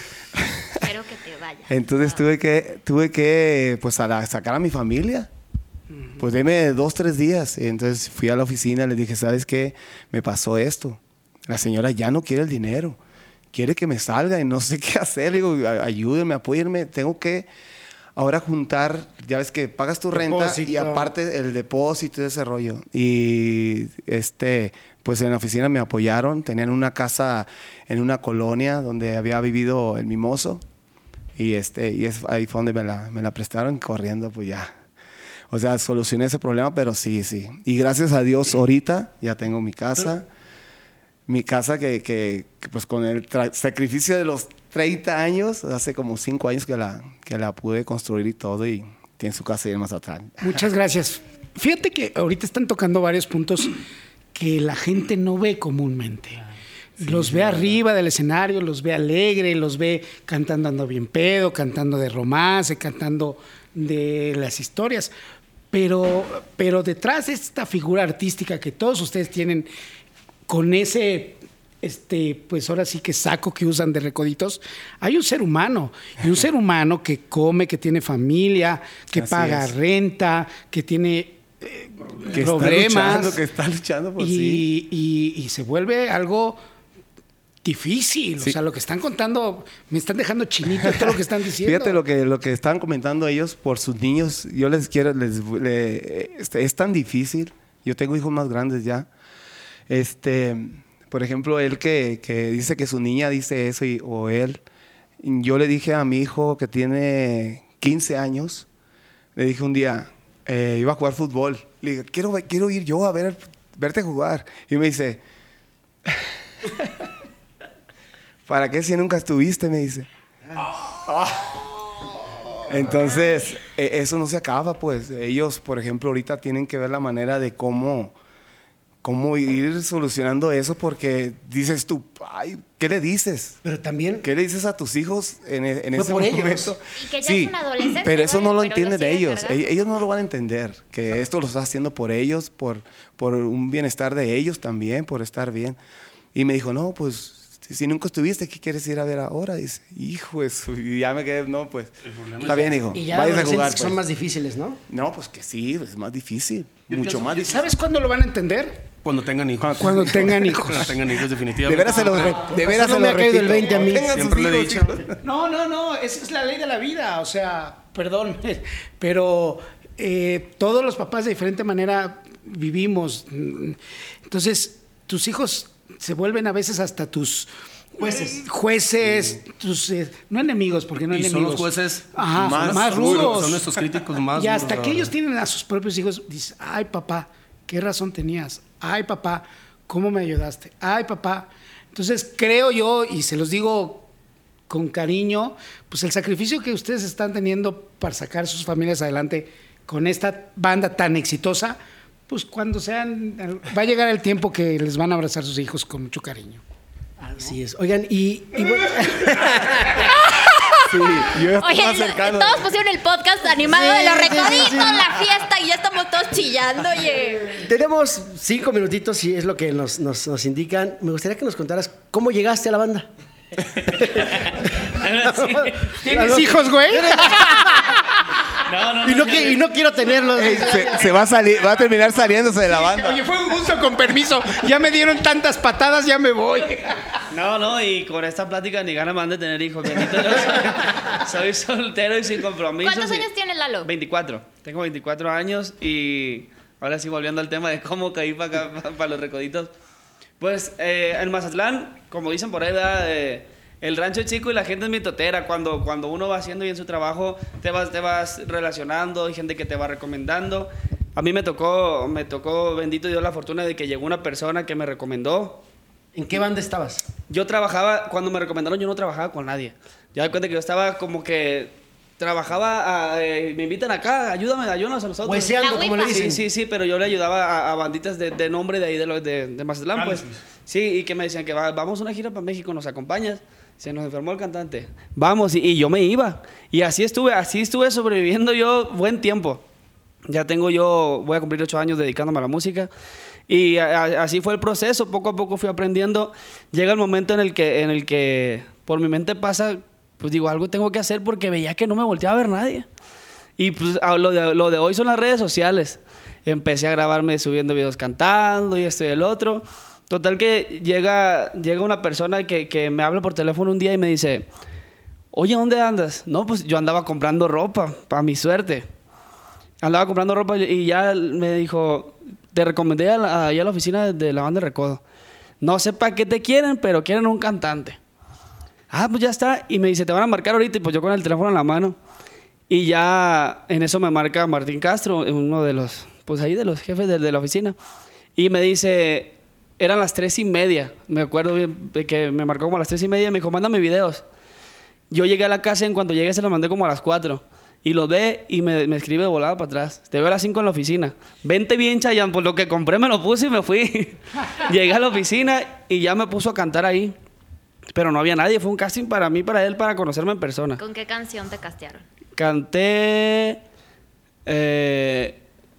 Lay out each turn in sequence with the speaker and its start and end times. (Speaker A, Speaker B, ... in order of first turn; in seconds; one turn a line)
Speaker A: 0.8-2.2
Speaker B: 1.7-5.3
Speaker B: 6.2-13.0
Speaker B: 13.5-17.5
Speaker B: 18.2-30.6
Speaker C: 20.1-21.1
Speaker B: 31.4-34.7
Speaker B: 35.5-40.3
Speaker B: 41.3-50.6
Speaker D: 50.4-53.7
Speaker D: 54.3-56.4
Speaker D: 57.0-65.1
Speaker D: 65.7-69.7
Speaker D: 70.5-83.4
Speaker B: 79.1-79.7
Speaker B: 82.3-84.6
Speaker D: 84.2-86.6
Speaker D: 87.6-92.0
Speaker B: 90.7-99.1
Speaker B: 99.9-104.6
Speaker B: 105.2-108.7
Speaker B: 109.4-115.2
Speaker B: 116.1-116.9
Speaker B: 118.5-120.1
Speaker B: 121.0-121.6
Speaker B: 122.7-128.2
Speaker B: 129.0-133.6
Speaker C: 133.6-134.2
Speaker B: 134.2-145.8
Speaker C: 135.9-136.7
Speaker A: 136.9-139.6
Speaker B: 146.3-154.0
Speaker E: 152.1-152.7
Speaker C: 152.9-154.8
Speaker B: 154.9-157.7
Speaker E: 156.9-157.3
Speaker D: 157.4-158.8
Speaker E: 159.0-162.4
Speaker B: 159.6-160.3
Speaker D: 159.8-160.9
Speaker B: 161.6-165.1
Speaker C: 162.5-164.1
Speaker E: 163.9-165.0
Speaker D: 165.2-183.6
Speaker C: 178.0-178.3
Speaker E: 181.1-185.1
Speaker B: 182.4-183.5
Speaker D: 184.4-194.1
Speaker D: 194.7-201.8
Speaker D: 202.3-206.6
Speaker C: 207.2-210.1
Speaker A: 210.1-217.6
Speaker B: 210.9-212.7
Speaker C: 213.6-215.1
Speaker C: 217.6-223.1
Speaker C: 223.7-227.8
Speaker F: 224.0-224.4
Speaker F: 224.9-225.9
Speaker D: 225.9-227.8
Speaker F: 228.6-229.6
Speaker C: 229.0-231.1
Speaker B: 230.3-233.2
Speaker D: 232.7-237.0
Speaker F: 237.3-243.3
Speaker A: 242.8-243.9
Speaker F: 243.8-249.7
Speaker F: 250.4-265.6
Speaker C: 266.1-267.0
Speaker F: 267.3-289.6
Speaker C: 275.2-276.4
Speaker A: 275.6-276.3
Speaker E: 279.9-280.4
Speaker F: 290.3-292.9
Speaker F: 293.5-302.9
Speaker F: 303.6-314.5
Speaker F: 315.3-318.9
Speaker F: 319.8-325.0
Speaker F: 325.6-328.0
Speaker F: 328.9-332.0
Speaker F: 332.7-337.8
Speaker F: 338.4-344.2
Speaker F: 345.1-357.1
Speaker F: 357.9-360.8
Speaker A: 360.8-362.0
Speaker F: 362.4-363.6
Speaker F: 364.5-365.4